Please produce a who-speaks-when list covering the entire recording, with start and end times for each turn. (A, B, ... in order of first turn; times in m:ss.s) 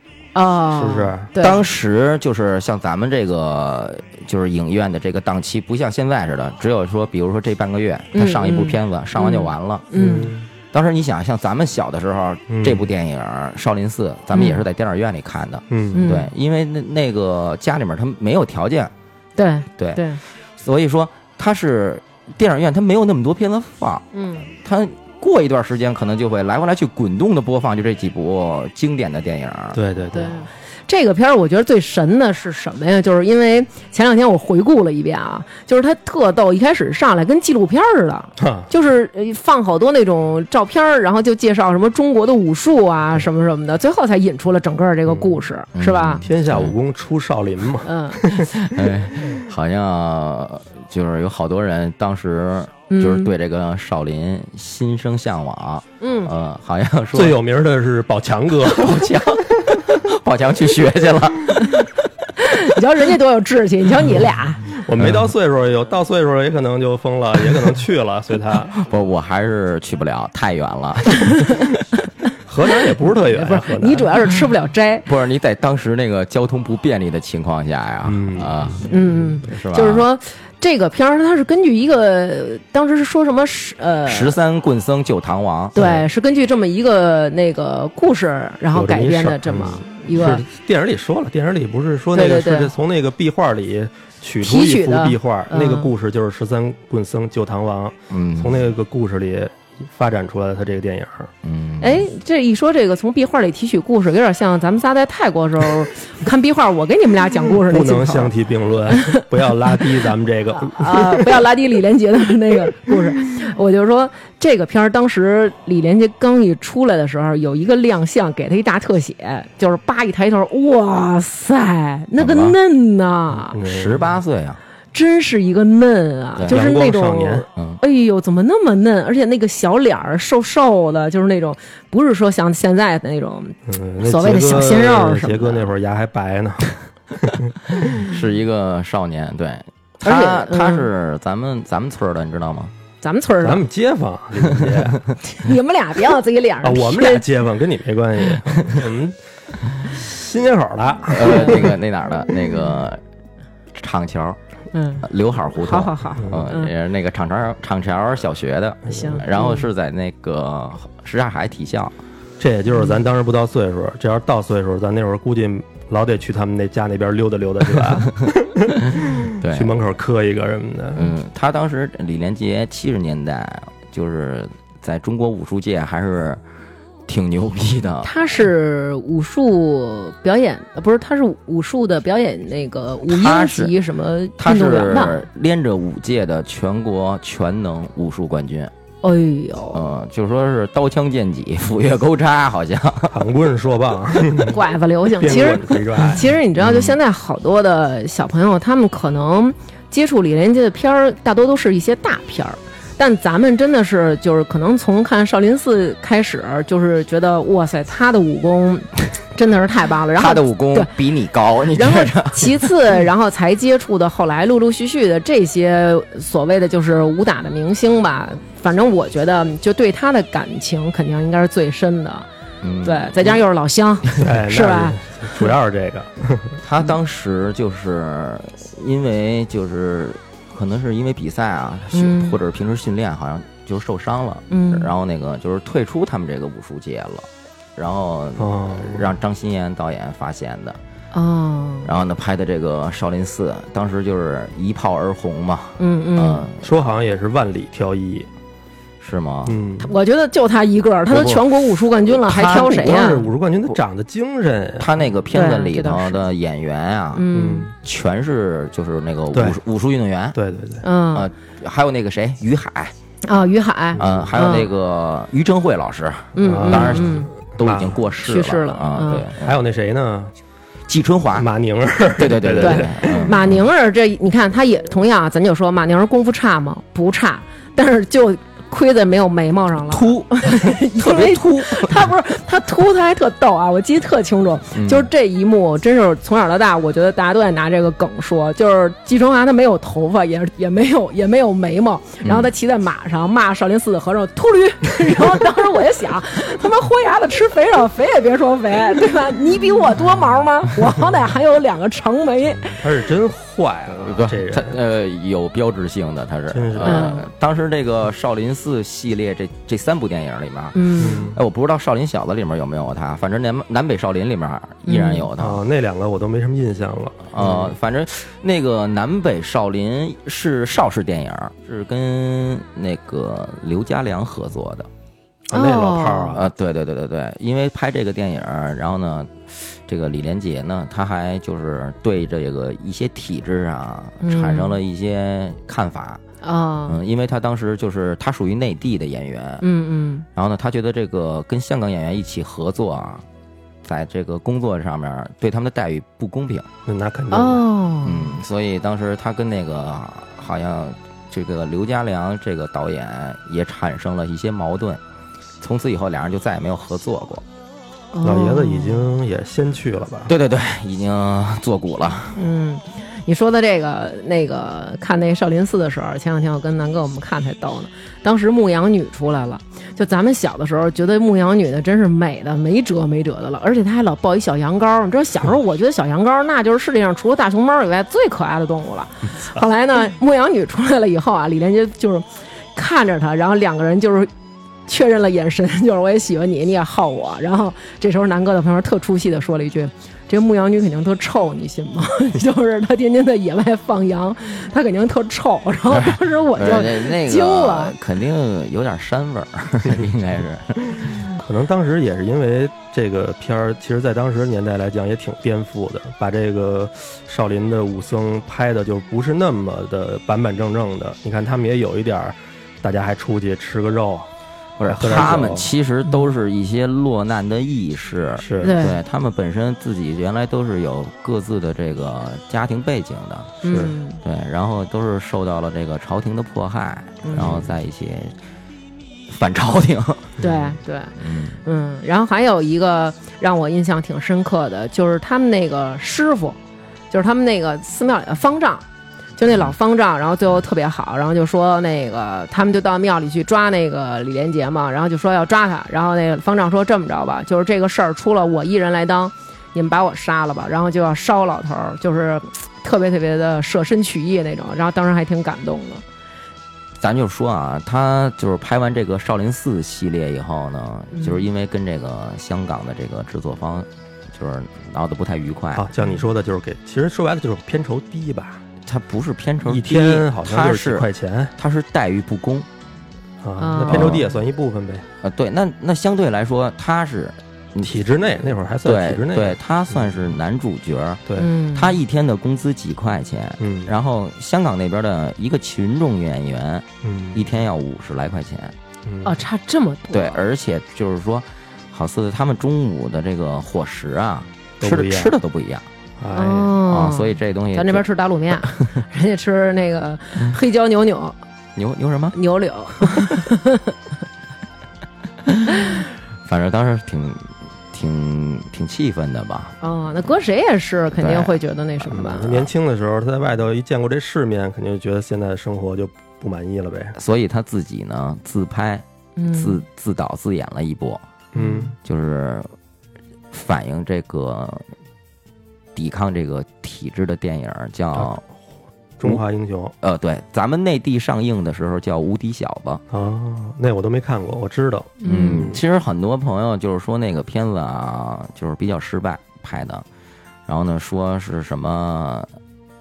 0:00.3-0:01.6 A
0:00.7-0:01.3 B
0:01.4-0:09.9 C
0:08.1-0:10.3 A
0:10.0-0:10.5 B
0:10.7-0:18.9 C
0:12.5-0:12.9 B
0:14.3-0:14.6 A
0:15.7-0:16.1 B
0:15.9-0:16.3 A
0:19.4-0:20.2 A
0:19.8-0:20.0 C
0:20.6-0:24.0 C
0:24.1-0:24.5 A
0:24.6-0:29.8 C
0:29.7-0:30.4 B
0:30.1-0:46.2 A
0:38.4-0:38.7 B
0:45.7-0:46.7 C
0:46.2-0:48.5 B
0:47.8-0:48.2 A
0:48.4-0:57.4 C
0:52.9-0:53.3 A
0:56.0-0:56.3 A
0:57.1-0:59.8 B
0:58.7-1:01.9 C
1:02.4-1:04.6 A
1:04.7-1:08.8 B
1:05.0-1:05.2 C
1:08.8-1:11.7 C
1:12.4-1:14.1 B
1:13.2-1:15.0 A
1:15.0-1:18.9 C
1:18.0-1:19.2 B
1:18.8-1:24.3 A
1:19.4-1:20.1 C
1:24.1-1:25.8 C
1:25.7-1:30.4 A
1:25.8-1:26.0 B
1:28.7-1:41.3 B
1:32.1-1:32.7 A
1:34.4-1:35.9 A
1:38.1-1:38.6 C
1:41.4-1:42.0 C
1:41.8-1:48.3 A
1:47.6-1:51.4 B
1:48.9-1:49.2 A
1:50.5-2:03.6 A
2:02.2-2:02.6 C
2:03.5-2:04.2 B
2:03.6-2:04.6 C
2:04.9-2:15.7 A
2:06.4-2:06.6 C
2:06.5-2:07.5 B
2:07.6-2:07.8 C
2:13.7-2:18.0 B
2:18.0-2:22.7 C
2:20.0-2:20.9 A
2:23.0-2:23.6 A
2:23.4-2:25.0 B
2:24.6-2:25.0 C
2:25.2-2:27.2 A
2:26.6-2:29.2 B
2:29.8-2:31.8 B
2:31.1-2:33.0 C
2:31.2-2:31.5 A
2:33.7-2:34.4 C
2:34.7-2:35.0 A
2:35.0-2:42.0 C
2:35.6-2:36.7 A
2:36.2-2:36.5 B
2:38.9-2:39.7 A
2:38.9-2:39.2 B
2:42.4-2:51.1 B
2:49.4-2:49.7 C
2:50.9-2:56.4 C
2:57.1-2:58.1 C
2:58.0-3:05.2 A
3:03.1-3:03.7 C
3:04.4-3:08.7 C
3:09.0-3:09.8 A
3:09.7-3:13.2 C
3:13.1-3:14.6 B
3:14.5-3:30.9 A
3:15.1-3:16.3 B
3:16.6-3:17.0 C
3:30.1-3:32.7 C
3:31.7-3:42.3 A
3:42.6-3:43.4 C
3:42.8-3:45.0 A
3:44.2-3:46.6 B
3:46.6-4:00.8 C
3:51.9-3:52.4 A
3:54.5-3:54.9 A
3:58.4-3:59.1 B
4:01.1-4:01.9 A
4:01.8-4:06.9 C
4:05.8-4:06.5 A
4:06.6-4:08.3 B
4:09.0-4:09.6 C
4:09.4-4:09.9 B
4:09.8-4:13.2 A
4:11.1-4:11.4 C
4:12.1-4:13.7 C
4:12.3-4:14.9 B
4:14.8-4:17.3 C
4:15.3-4:16.2 A
4:17.1-4:17.7 A
4:17.3-4:17.7 B
4:17.8-4:20.4 C
4:19.3-4:19.6 B
4:20.3-4:20.8 B
4:20.8-4:21.3 A
4:21.1-4:22.9 C
4:23.2-4:24.7 A
4:24.0-4:24.3 B
4:24.0-4:29.5 C
4:26.3-4:27.3 A
4:26.4-4:28.0 B
4:28.2-4:29.2 A
4:29.3-4:30.3 B
4:30.9-4:31.5 C
4:31.3-4:33.3 B
4:32.2-4:33.6 C
4:32.6-5:02.8 A
4:39.9-4:42.1 C
4:44.7-4:45.1 C
4:52.2-4:52.5 C
5:02.5-5:04.8 B
5:04.0-5:15.6 C
5:06.5-5:07.1 B
5:06.8-5:07.3 A
5:10.7-5:11.3 A
5:11.0-5:11.4 B
5:14.8-5:15.3 A
5:15.4-5:17.7 B
5:17.3-5:24.9 C
5:25.5-5:26.4 A
5:25.5-5:26.5 B
5:26.3-5:36.2 C
5:34.2-5:34.7 A
5:36.4-5:37.0 A
5:36.9-5:39.6 C
5:39.6-5:40.2 A
5:40.3-5:43.2 C
5:43.8-5:46.7 C
5:46.8-5:47.6 B
5:47.3-5:48.4 A
5:48.0-5:55.0 C
5:55.6-5:57.4 C
5:58.1-5:59.1 A
5:58.2-6:00.3 B
6:00.3-6:02.4 C
6:02.4-6:24.3 A
6:24.9-6:38.0 A
6:35.9-6:41.3 C
6:41.3-6:54.3 B
6:54.8-7:08.3 C
6:54.8-6:55.7 B
6:58.4-6:58.8 B
6:58.6-6:59.0 A
7:03.6-7:04.2 A
7:07.2-7:07.6 A
7:07.4-7:07.6 B
7:09.3-7:10.4 C
7:10.4-7:10.7 B
7:10.4-7:11.1 A
7:11.2-7:11.6 C
7:11.6-7:16.6 A
7:17.1-7:18.8 A
7:19.4-7:36.0 A
7:37.0-7:45.9 C
7:41.1-7:41.5 A
7:45.7-7:48.6 B
7:48.8-7:52.7 C
7:49.6-7:51.5 B
7:53.4-7:55.1 B
7:53.6-7:54.3 A
7:53.9-7:54.2 C
7:55.2-7:58.0 C
7:57.8-8:00.2 B
7:58.8-8:08.7 C
8:01.4-8:02.0 A
8:03.6-8:03.9 B
8:07.0-8:07.5 B
8:09.0-8:09.4 B
8:09.2-8:10.4 A
8:10.1-8:15.8 C
8:14.8-8:15.4 B
8:16.2-8:16.8 B
8:16.3-8:21.4 A
8:16.9-8:18.8 C
8:21.8-8:22.4 C
8:22.3-8:23.9 A
8:25.5-8:29.7 C
8:29.8-8:32.7 A
8:31.2-8:31.6 C
8:32.1-8:37.2 B
8:37.2-8:41.2 C
8:39.4-8:39.8 A
8:41.5-8:41.9 B
8:41.6-8:41.9 A
8:42.0-8:42.7 C
8:43.5-8:44.8 C
8:45.9-8:48.4 C
8:49.2-8:49.9 B
8:50.0-8:53.0 C
8:53.1-8:55.8 B
8:55.2-8:55.7 A
8:55.2-9:00.0 C
9:00.7-9:02.5 C